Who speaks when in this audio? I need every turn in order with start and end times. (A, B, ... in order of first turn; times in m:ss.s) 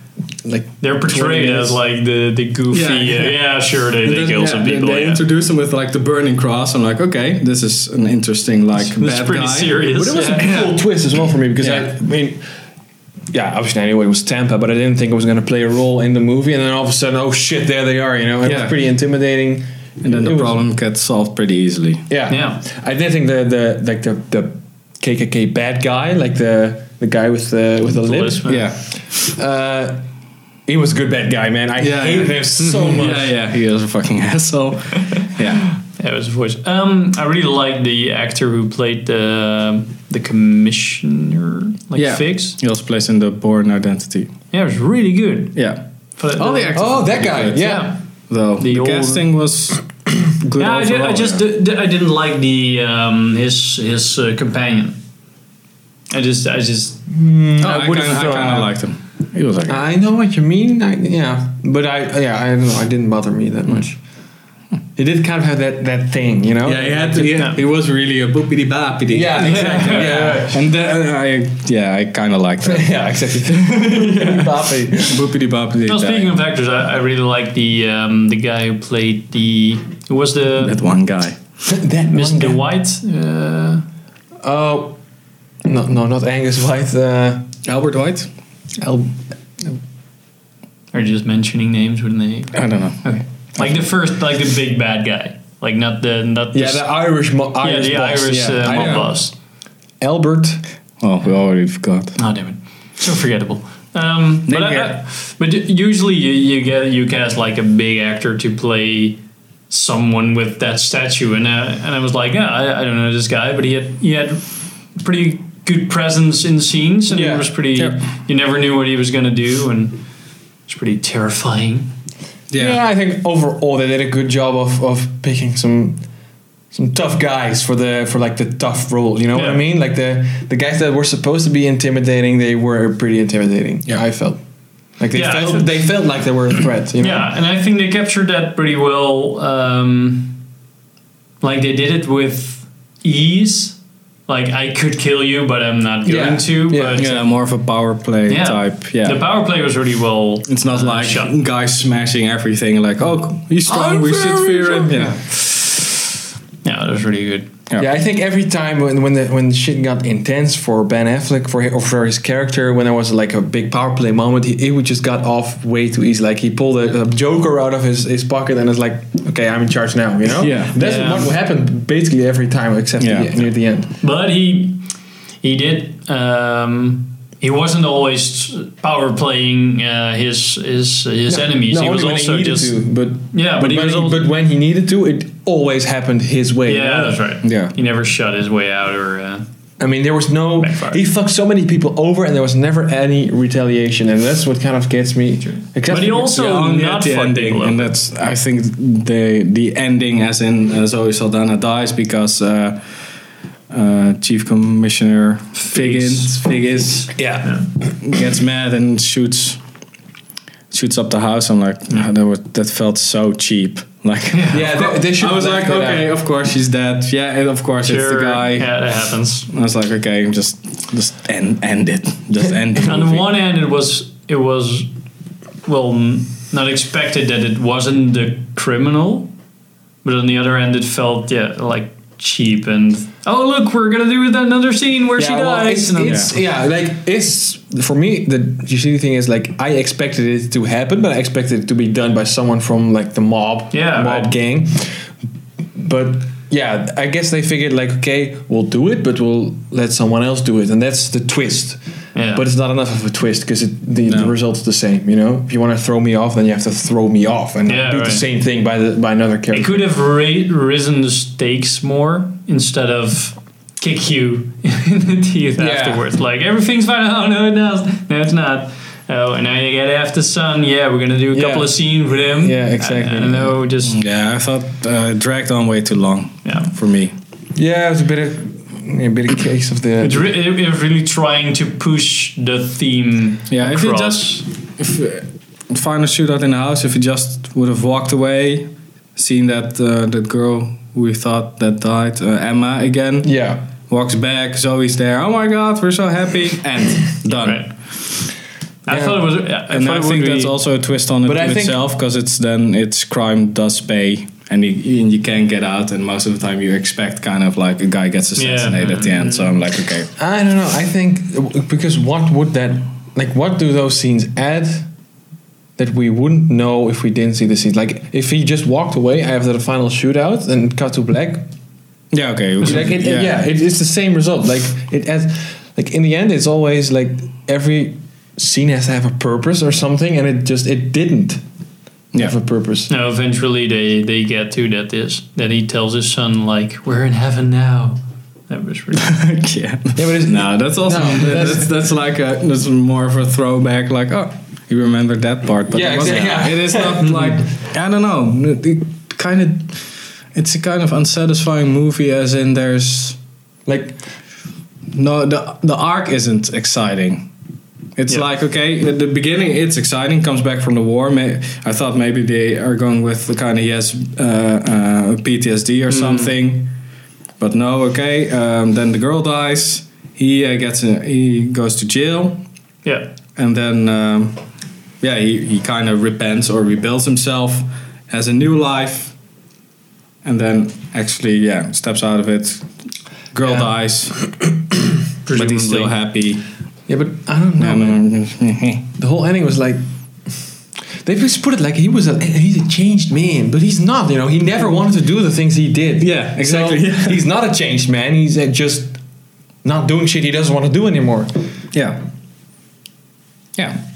0:00.4-0:01.8 A
0:00.8-0:05.2 B
0:02.7-0:03.4 C
0:04.0-0:10.8 C
0:09.0-0:10.5 B
0:10.0-0:12.4 A
0:11.6-0:11.9 C
0:13.3-0:20.6 A
0:18.4-0:18.8 C
0:20.0-0:22.0 C
0:22.1-0:28.5 A
0:22.3-0:22.6 B
0:28.0-0:28.7 B
0:28.5-0:28.8 C
0:29.1-0:30.0 A
0:30.7-0:33.3 A
0:31.8-0:35.8 C
0:36.0-0:42.6 B
0:42.0-0:44.3 C
0:44.5-0:45.6 B
0:45.6-0:45.8 C
0:46.2-0:48.0 B
0:46.4-0:51.4 C
0:46.6-0:47.9 A
0:48.6-0:49.3 B
0:50.6-0:55.0 B
0:56.1-0:57.0 B
0:57.1-0:58.8 A
0:57.6-0:59.8 C
0:59.7-1:04.0 A
1:05.0-1:07.4 A
1:06.6-1:14.5 C
1:09.1-1:10.5 A
1:09.4-1:10.6 B
1:12.6-1:15.3 A
1:15.0-1:16.4 C
1:15.9-1:20.8 B
1:20.6-1:21.4 C
1:21.6-1:22.6 A
1:22.1-1:23.8 B
1:24.4-1:25.0 A
1:25.6-1:27.5 A
1:27.7-1:28.3 C
1:28.8-1:29.8 A
1:30.9-1:36.9 B
1:32.5-1:33.1 C
1:36.5-1:39.2 A
1:37.6-1:39.4 B
1:38.6-1:39.1 C
1:40.0-1:40.6 A
1:41.0-1:42.2 C
1:42.2-1:54.4 B
1:44.5-1:45.0 C
1:55.0-2:00.0 B
1:57.1-1:58.0 A
2:00.7-2:01.9 B
2:02.5-2:02.8 C
2:02.6-2:06.0 A
2:06.7-2:14.4 A
2:09.3-2:09.6 B
2:15.0-2:17.3 A
2:15.1-2:15.9 B
2:17.0-2:20.4 B
2:21.4-2:27.3 B
2:26.0-2:27.0 A
2:27.0-2:29.3 C
2:28.3-2:31.4 B
2:30.5-2:35.2 C
2:33.7-2:35.2 A
2:36.6-2:37.5 B
2:37.8-2:53.9 A
2:50.3-2:50.8 C
2:50.8-2:51.3 B
2:53.0-2:53.4 C
2:54.0-2:54.8 B
2:55.4-3:02.8 B
3:01.3-3:07.2 A
3:03.3-3:04.3 B
3:06.7-3:09.4 B
3:07.4-3:07.8 C
3:09.8-3:16.7 A
3:10.6-3:11.0 B
3:15.5-3:17.9 B
3:16.2-3:23.0 C
3:23.7-3:27.2 C
3:25.6-3:27.7 B
3:27.2-3:27.6 A
3:28.0-3:29.6 C
3:30.7-3:38.8 C
3:34.4-3:34.7 B
3:34.5-3:36.1 A
3:37.8-3:39.5 B
3:39.5-3:43.3 C
3:42.8-3:44.9 B
3:45.6-3:49.3 B
3:50.0-3:56.3 B
3:55.2-4:05.1 A
3:56.0-3:56.4 C
4:03.7-4:04.3 B
4:05.8-4:11.8 A
4:12.1-4:12.4 B
4:12.3-4:19.8 A
4:14.1-4:14.3 C
4:17.7-4:18.2 B
4:19.5-4:34.0 B
4:25.6-4:26.0 A
4:31.3-4:33.6 A
4:33.9-4:37.1 C
4:36.4-4:36.7 B
4:37.5-4:40.3 A
4:40.0-4:44.5 B
4:43.5-4:53.4 C
4:53.2-4:53.6 A
4:53.9-4:57.7 C
4:57.4-4:57.7 B
4:58.9-5:00.5 B
4:58.9-4:59.3 A
4:59.7-5:10.1 C
5:01.2-5:01.8 A
5:08.4-5:09.5 B
5:10.2-5:14.9 A
5:15.8-5:21.4 A
5:22.1-5:23.4 C
5:22.6-5:31.4 A
5:32.1-5:32.9 A
5:32.9-5:39.1 B
5:39.0-5:53.2 C
5:40.0-5:41.7 A
5:45.7-5:47.3 A
5:46.0-5:46.4 B
5:47.0-5:47.3 B
5:53.7-5:54.0 A
5:54.9-5:57.3 C
5:58.0-6:06.7 C
6:05.9-6:06.4 B
6:07.4-6:12.4 C
6:12.8-6:13.1 B
6:13.4-6:14.4 C
6:15.0-6:19.1 C
6:20.2-6:22.7 C
6:23.3-6:24.4 C
6:23.4-6:23.7 A
6:25.2-6:25.9 B
6:25.3-6:26.4 C
6:26.9-6:28.0 A
6:27.6-6:28.8 C
6:29.0-6:29.8 A
6:31.0-6:39.0 A
6:36.0-6:37.2 C
6:39.6-6:41.5 A
6:41.7-6:42.0 C